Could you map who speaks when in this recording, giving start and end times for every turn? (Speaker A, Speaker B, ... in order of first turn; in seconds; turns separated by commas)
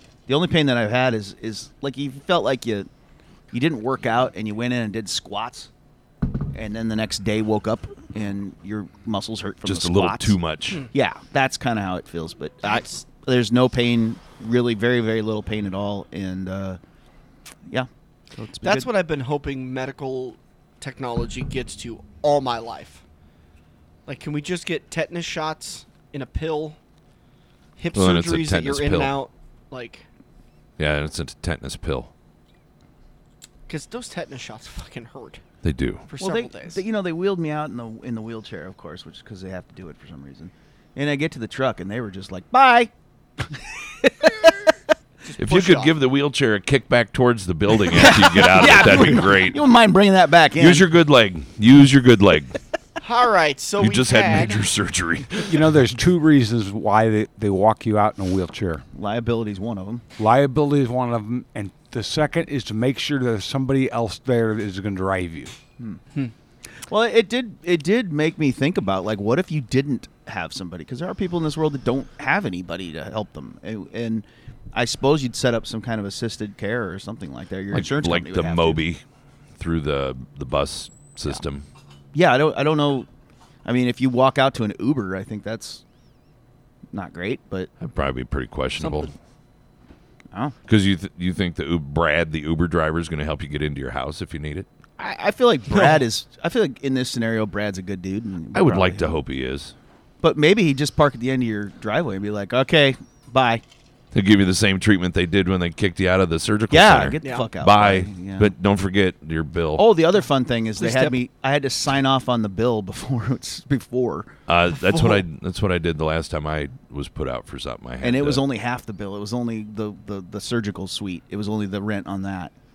Speaker A: 0.3-2.9, Speaker A: 3.5-5.7, Speaker A: 6.5-10.3, Speaker B: 9.6-10.9, Speaker A: 10.9-16.8, Speaker C: 12.6-13.0, Speaker A: 17.7-18.9, Speaker C: 18.6-23.0, Speaker C: 24.1-26.8, Speaker C: 27.8-30.0, Speaker B: 27.9-29.2, Speaker B: 30.8-32.1, Speaker C: 33.7-35.4, Speaker B: 35.6-36.0, Speaker C: 36.1-36.8, Speaker A: 36.2-44.5, Speaker C: 45.2-45.9, Speaker B: 45.4-49.6, Speaker A: 47.9-50.9, Speaker B: 50.6-52.6, Speaker C: 53.0-54.6, Speaker B: 53.8-55.7, Speaker D: 55.5-58.8, Speaker A: 58.9-60.0, Speaker D: 60.2-65.5, Speaker A: 66.7-78.8, Speaker B: 77.7-79.0, Speaker B: 79.6-81.6, Speaker A: 82.1-83.1, Speaker A: 83.6-85.8, Speaker A: 86.9-87.7, Speaker B: 87.8-89.1, Speaker C: 88.8-89.1, Speaker B: 90.7-94.7, Speaker A: 95.0-99.1, Speaker B: 98.5-99.7, Speaker A: 100.2-103.6, Speaker B: 104.1-109.8, Speaker A: 106.7-108.5, Speaker C: 107.2-107.5, Speaker A: 109.8-114.3, Speaker C: 110.8-111.1, Speaker B: 114.5-118.4, Speaker C: 114.9-115.2, Speaker A: 118.0-122.5